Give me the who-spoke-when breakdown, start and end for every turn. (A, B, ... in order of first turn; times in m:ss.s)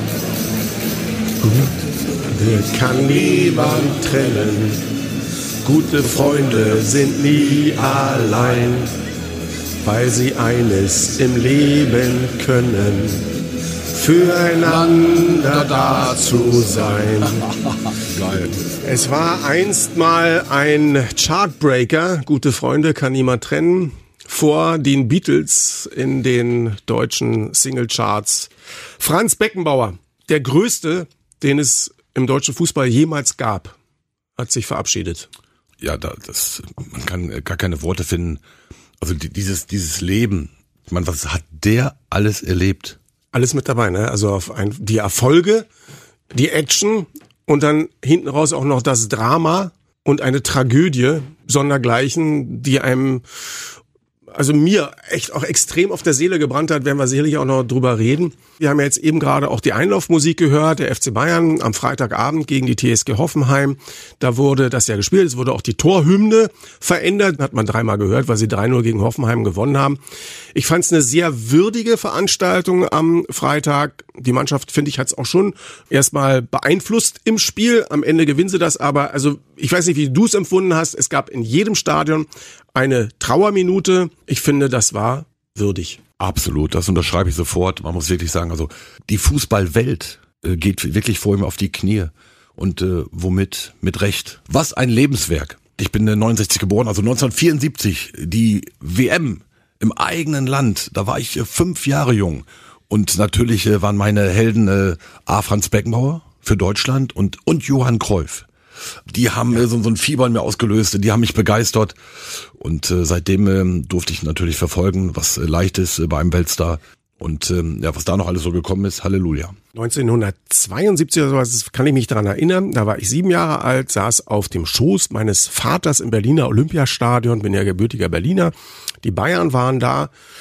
0:01.4-0:01.8 A
0:02.3-0:04.8 A
0:05.6-0:08.9 A
0:09.8-0:13.2 A
0:13.9-0:17.5 A
0:17.5-0:18.6 B
0:18.8-0:33.8 A
0:34.4-0:35.3 A
0:35.8-0:38.4 B
0:39.0-0:43.0 B
0:43.3-0:45.7 A
0:46.3-0:53.2 A
0:54.3-1:10.0 A
1:10.5-1:26.0 A
1:26.2-1:48.5 B
1:49.1-1:52.0 B
1:52.6-1:59.6 B
1:59.7-2:10.1 A